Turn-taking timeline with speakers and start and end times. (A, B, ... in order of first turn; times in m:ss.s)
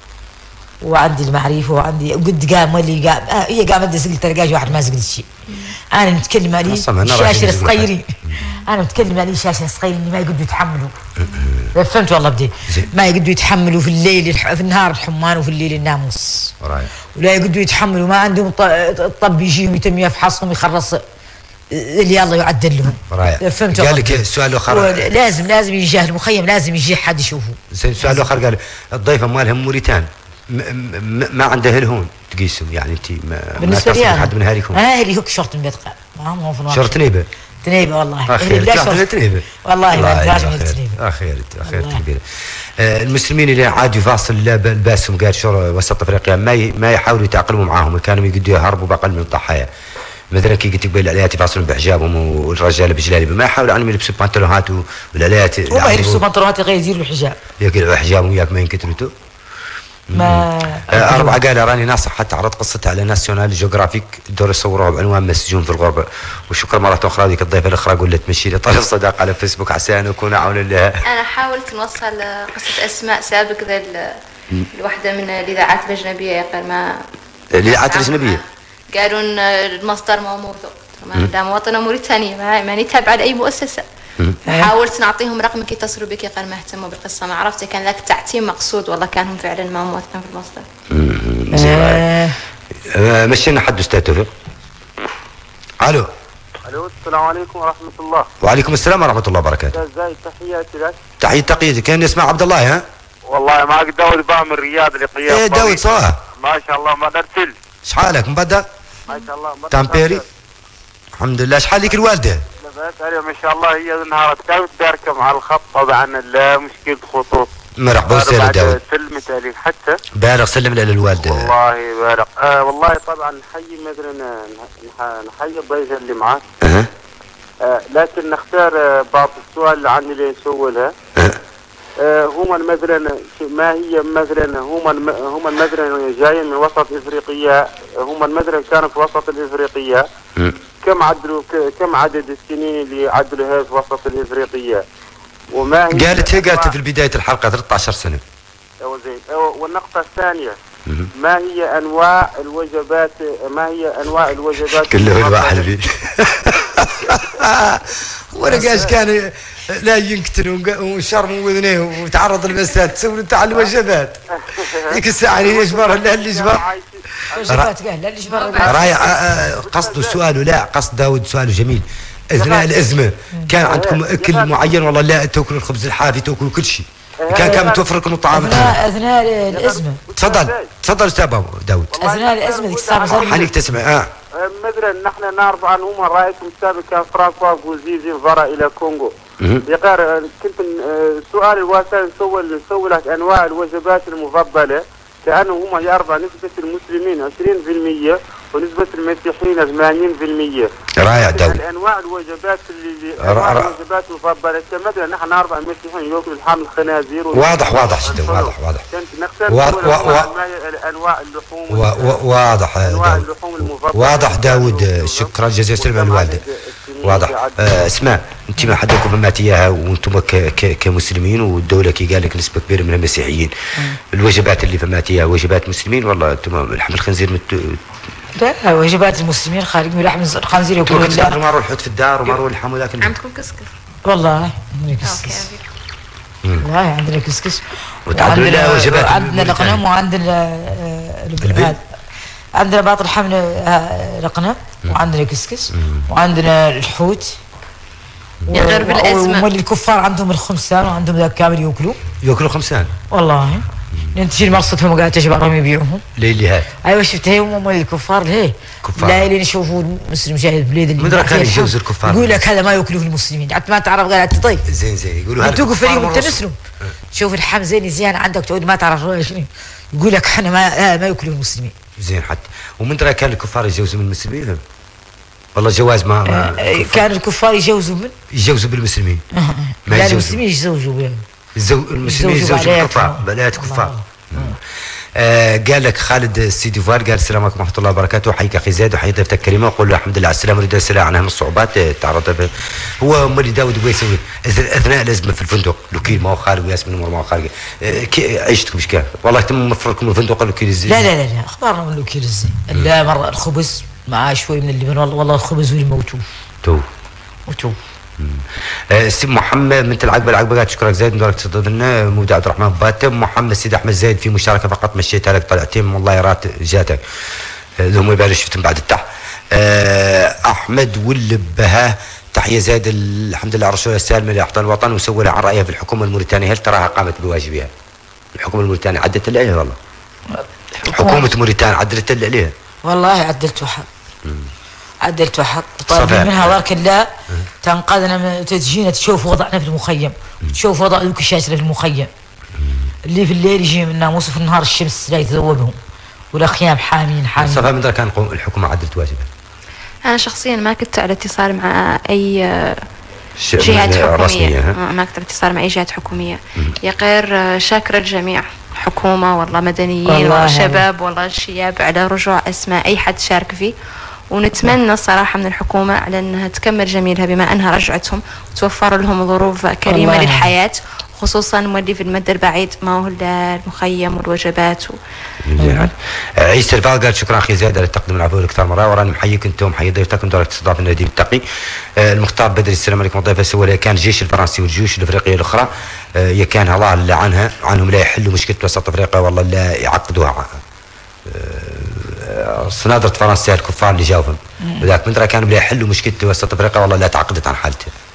0:00.8-0:05.3 A
0:05.9-0:08.1 A
0:06.6-0:08.3 B
0:08.4-0:08.7 C
0:08.6-0:10.9 A
0:11.2-0:11.7 B
0:11.7-0:16.5 A
0:16.6-0:16.9 B
0:17.2-0:21.0 A
0:21.7-0:28.3 A
0:23.1-0:25.1 B
0:27.7-0:34.8 B
0:33.6-0:37.0 A
0:36.7-0:37.3 B
0:37.6-0:41.0 A
0:38.3-0:42.2 B
0:41.6-0:42.0 A
0:42.8-0:49.7 B
0:50.3-0:56.2 B
0:55.7-0:57.4 A
0:57.6-0:59.1 B
1:00.1-1:11.0 B
1:00.2-1:01.4 A
1:11.0-1:14.1 C
1:14.7-1:17.0 C
1:17.5-1:18.4 B
1:17.6-1:23.8 C
1:24.5-1:30.6 C
1:30.9-1:32.0 B
1:31.5-1:32.4 A
1:32.9-1:34.3 B
1:35.8-1:36.1 B
1:36.7-1:38.3 D
1:38.4-1:39.7 B
1:39.7-1:41.0 D
1:41.2-1:42.8 B
1:43.3-1:47.5 D
1:45.3-1:46.2 B
1:47.9-1:48.7 B
1:49.1-1:50.3 D
1:49.7-1:50.2 B
1:51.2-1:52.4 B
1:52.6-1:57.5 D
1:57.8-1:58.8 B
1:58.0-2:00.0 D
2:00.2-2:01.5 B
2:01.2-2:06.4 D
2:06.6-2:06.9 B
2:07.6-2:10.9 D
2:12.0-2:20.0 D
2:20.8-2:24.8 D
2:25.5-2:26.8 D
2:25.9-2:28.2 B
2:28.8-2:30.6 D
2:31.2-2:35.7 D
2:34.7-2:44.2 B
2:38.5-2:38.9 A
2:44.5-2:47.5 D
2:44.9-2:46.7 B
2:47.3-2:49.2 A
2:47.4-2:47.7 B
2:48.2-2:48.8 C
2:48.6-2:58.8 B
2:49.4-2:50.2 D
2:52.4-2:52.9 D
2:53.3-2:53.6 A
2:53.5-2:54.7 D
2:57.2-2:58.0 D
2:58.3-3:00.0 A
2:59.5-3:00.7 D
3:00.2-3:01.9 B
3:01.9-3:03.5 D
3:02.0-3:03.5 A
3:03.1-3:04.1 B
3:04.4-3:09.1 D
3:09.7-3:32.2 D
3:21.0-3:21.6 B
3:23.2-3:23.7 B
3:27.3-3:28.8 B
3:29.5-3:30.3 B
3:31.7-3:36.4 B
3:32.8-3:37.8 D
3:37.0-3:43.5 B
3:44.1-3:47.8 B
3:48.4-3:51.4 A
3:50.8-3:53.2 B
3:53.0-3:53.7 C
3:54.0-3:55.5 A
3:55.0-3:55.6 C
3:56.6-4:01.8 A
3:58.1-3:59.8 B
4:01.4-4:01.8 B
4:02.6-4:07.4 A
4:05.7-4:06.0 B
4:08.5-4:09.5 C
4:08.5-4:12.0 A
4:12.2-4:12.9 B
4:13.1-4:16.0 A
4:16.2-4:16.7 B
4:16.8-4:24.6 A
4:18.8-4:19.3 B
4:21.0-4:22.4 B
4:24.7-4:26.4 B
4:25.4-4:26.6 A
4:27.1-4:31.7 A
4:32.0-4:34.6 B
4:35.6-4:37.0 B
4:36.3-4:38.1 A
4:38.3-4:39.2 B
4:39.3-4:41.2 A
4:39.9-4:40.4 B
4:41.6-4:44.6 B
4:42.0-4:44.6 A
4:45.2-5:01.1 B
5:00.9-5:06.2 A
5:07.5-5:07.8 A
5:08.2-5:17.0 B
5:17.8-5:27.7 B
5:28.4-5:29.8 B
5:30.3-5:31.3 A
5:30.9-5:32.5 B
5:32.8-5:33.9 A
5:34.2-5:34.5 B
5:35.0-5:37.1 A
5:35.9-5:36.6 B
5:37.6-5:42.1 A
5:42.6-5:42.9 B
5:43.1-5:45.8 A
5:46.3-5:47.7 A
5:47.4-5:49.3 B
5:50.1-5:52.8 C
5:53.4-5:54.8 B
5:53.6-6:03.7 C
6:00.1-6:00.8 A
6:04.3-6:15.0 C
6:09.9-6:10.5 A
6:15.4-6:21.4 B
6:15.6-6:15.9 A
6:22.0-6:30.6 B
6:31.3-6:37.9 B
6:34.6-6:34.9 A